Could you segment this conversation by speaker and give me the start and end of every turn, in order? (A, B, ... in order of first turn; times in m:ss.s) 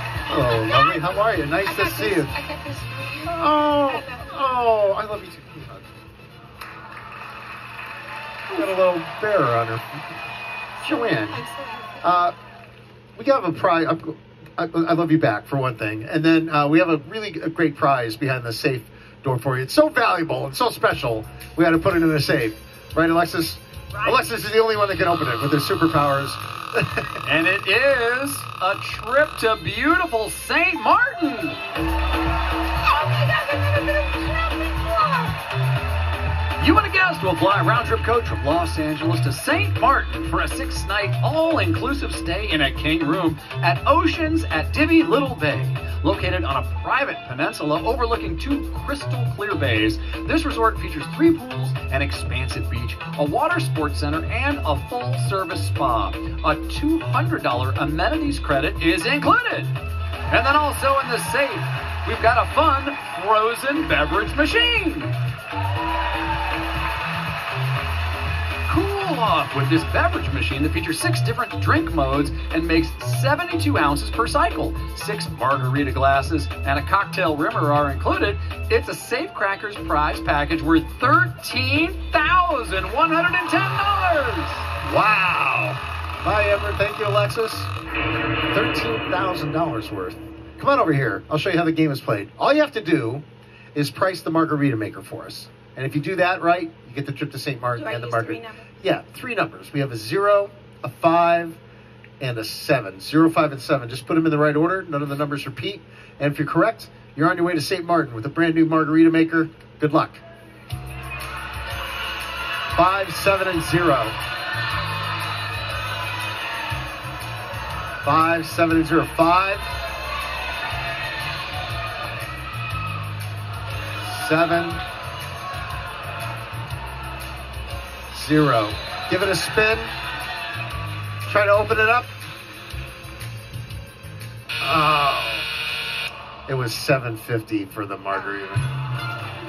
0:00.3-0:02.4 A
0:00.7-0:04.3 B
0:03.3-0:05.9 A
0:08.5-0:09.8 A
0:10.8-0:11.4 A
0:10.8-0:12.0 B
0:12.0-0:12.3 A
0:13.2-0:27.2 A
0:27.2-0:31.6 C
0:32.8-0:35.4 B
0:36.6-1:05.2 C
1:08.7-1:24.7 C
1:24.8-1:27.7 A
1:28.5-1:41.6 A
1:37.8-1:38.6 B
1:42.2-1:50.2 A
1:52.7-1:54.2 A
1:58.0-1:59.7 A
2:04.0-2:04.8 A
2:08.1-2:10.0 A
2:11.2-2:12.1 A
2:14.6-2:15.5 A
2:16.5-2:18.7 A